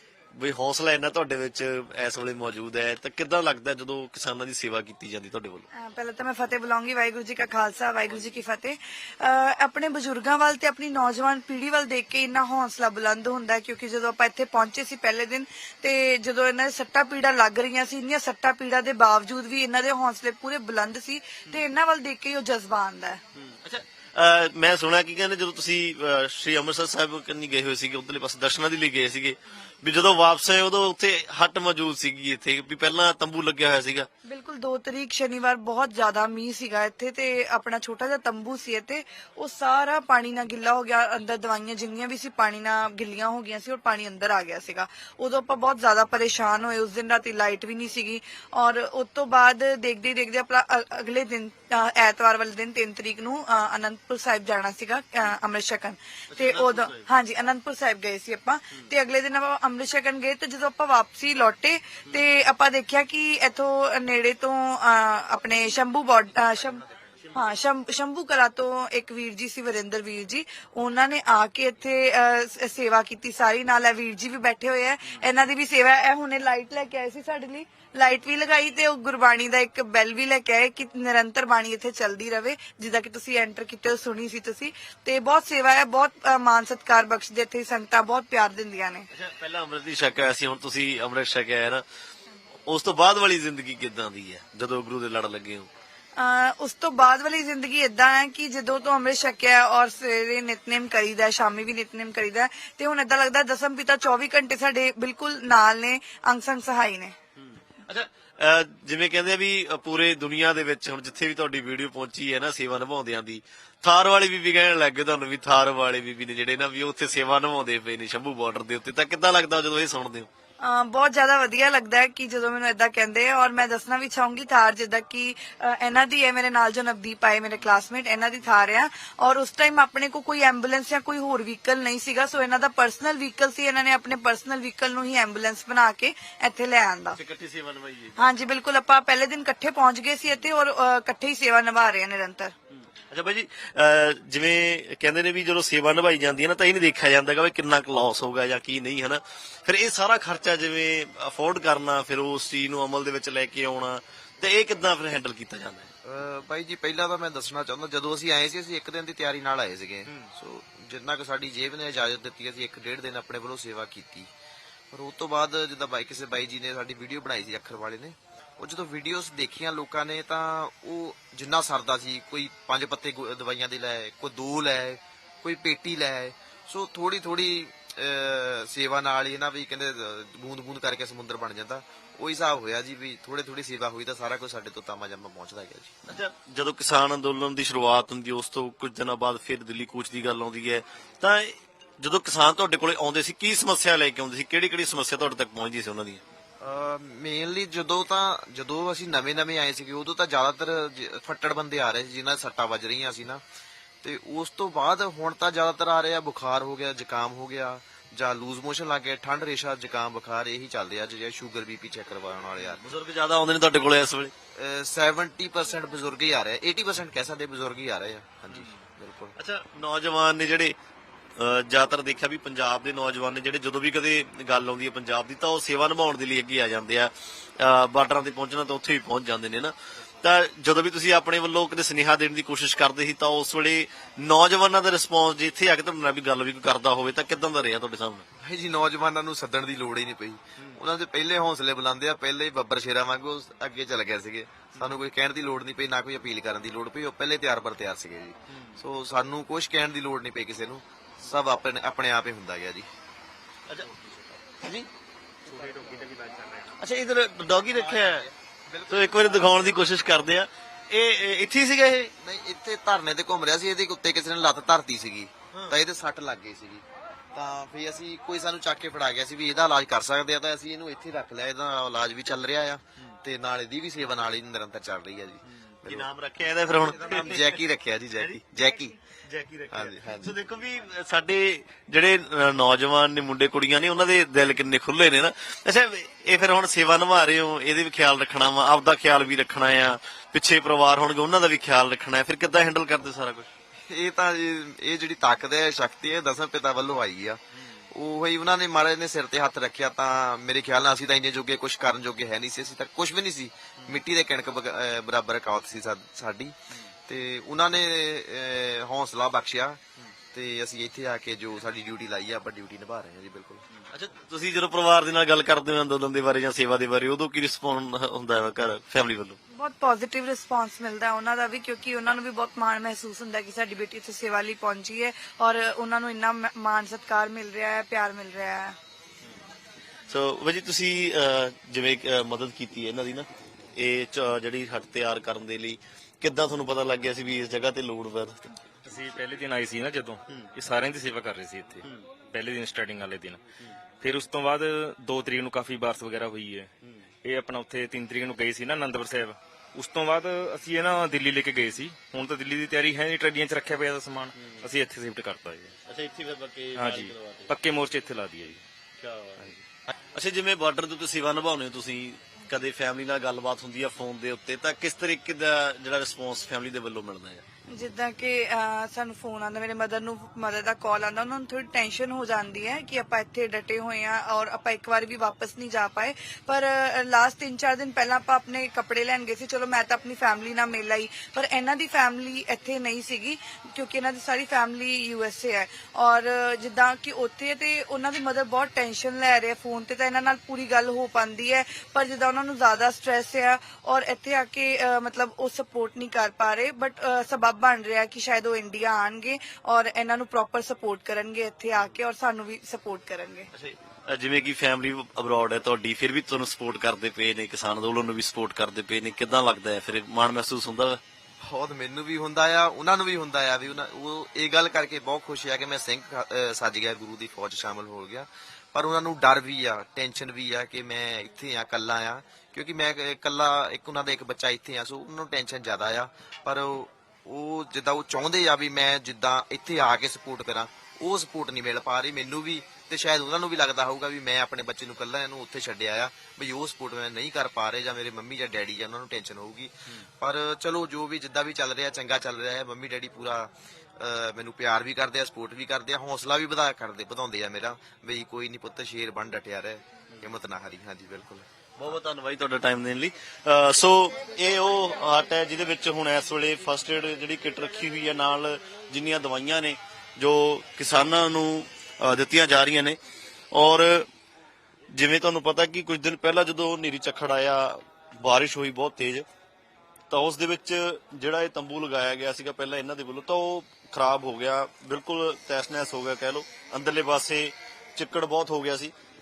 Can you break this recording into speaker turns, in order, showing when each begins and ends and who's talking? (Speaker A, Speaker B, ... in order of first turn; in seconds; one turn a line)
Speaker A: 0.3-5.7
Speaker B: 5.8-23.2
Speaker A: 23.3-34.1
Speaker B: 34.2-66.8
Speaker A: 56.3-57.0
Speaker A: 67.2-67.5
Speaker B: 67.3-89.1
Speaker A: 89.1-91.8
Speaker A: 92.7-95.7
Speaker B: 96.2-107.1
Speaker A: 107.4-120.3
Speaker B: 120.6-137.2
Speaker A: 137.1-138.3
Speaker B: 138.2-142.5
Speaker A: 143.1-155.9
Speaker C: 156.0-164.3
Speaker C: 164.9-185.9
Speaker A: 186.1-196.2
Speaker C: 196.6-203.4
Speaker C: 204.0-212.8
Speaker A: 212.6-214.3
Speaker C: 214.6-219.3
Speaker A: 219.3-220.7
Speaker A: 221.4-238.2
Speaker C: 238.4-252.9
Speaker A: 248.5-248.8
Speaker A: 253.7-254.9
Speaker D: 255.7-256.6
Speaker A: 256.8-258.2
Speaker C: 257.7-259.1
Speaker A: 258.9-262.1
Speaker C: 262.2-276.1
Speaker A: 265.5-265.8
Speaker A: 275.4-277.6
Speaker C: 276.8-278.9
Speaker A: 278.2-278.6
Speaker A: 279.1-293.5
Speaker C: 279.7-280.3
Speaker C: 293.9-309.8
Speaker C: 310.3-313.6
Speaker A: 313.8-319.4
Speaker B: 319.5-328.8
Speaker A: 330.1-338.5
Speaker D: 338.9-343.4
Speaker D: 344.0-346.7
Speaker D: 347.2-355.7
Speaker A: 354.4-354.6
Speaker A: 355.8-357.6
Speaker D: 356.8-358.6
Speaker A: 359.0-359.5
Speaker A: 360.1-367.4
Speaker B: 367.7-403.5
Speaker A: 403.5-411.0
Speaker C: 411.4-451.4
Speaker A: 451.8-463.0
Speaker A: 463.5-464.1
Speaker A: 464.9-469.2
Speaker A: 470.1-478.9